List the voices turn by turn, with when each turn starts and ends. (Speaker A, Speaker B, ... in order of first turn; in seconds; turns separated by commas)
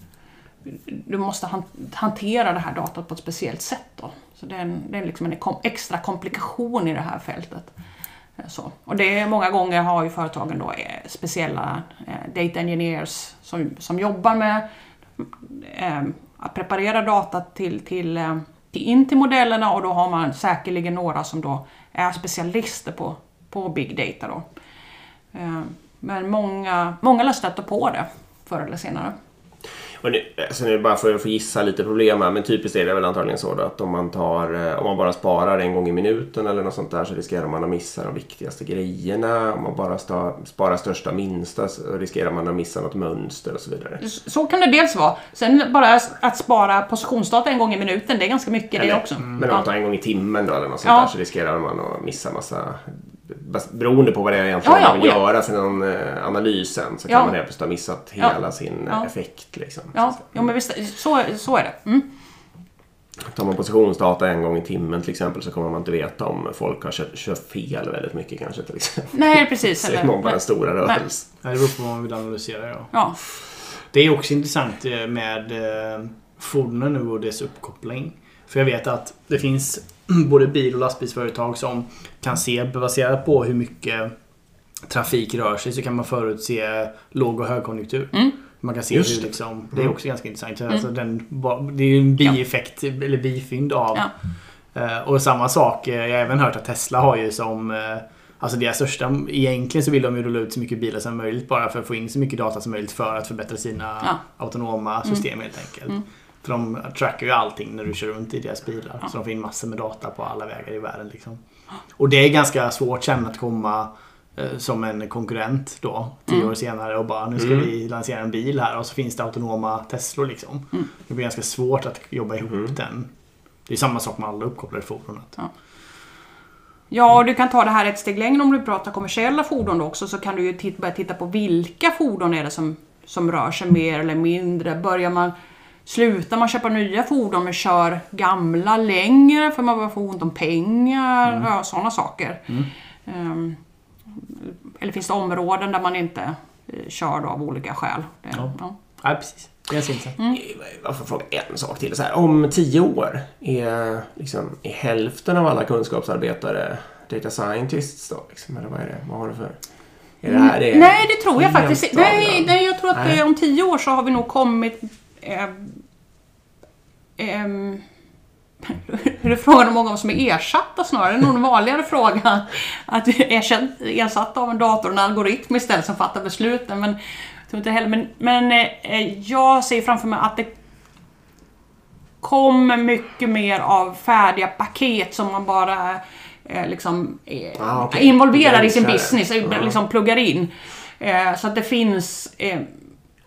Speaker A: 0.7-7.7, Speaker A: 8.4-14.6, Speaker A: 15.2-24.5, Speaker A: 25.3-29.1, Speaker B: 30.0-44.0, Speaker A: 44.0-49.7, Speaker B: 48.8-60.5, Speaker A: 50.8-51.1, Speaker A: 54.6-55.2, Speaker A: 57.1-57.4, Speaker A: 59.9-62.1, Speaker B: 63.3-71.3, Speaker A: 69.1-71.0, Speaker C: 71.4-72.9, Speaker C: 73.9-84.1, Speaker C: 84.9-94.1, Speaker B: 88.9-90.0, Speaker C: 94.7-111.4, Speaker C: 112.0-123.1, Speaker B: 117.4-117.7, Speaker C: 123.7-125.4, Speaker A: 126.9-135.3, Speaker A: 135.9-142.5, Speaker A: 143.1-143.6, Speaker A: 144.2-148.8, Speaker C: 148.3-150.2, Speaker B: 150.3-163.2, Speaker A: 160.3-165.8, Speaker A: 167.2-167.8, Speaker A: 168.6-180.5, Speaker A: 182.2-192.7, Speaker B: 187.6-189.7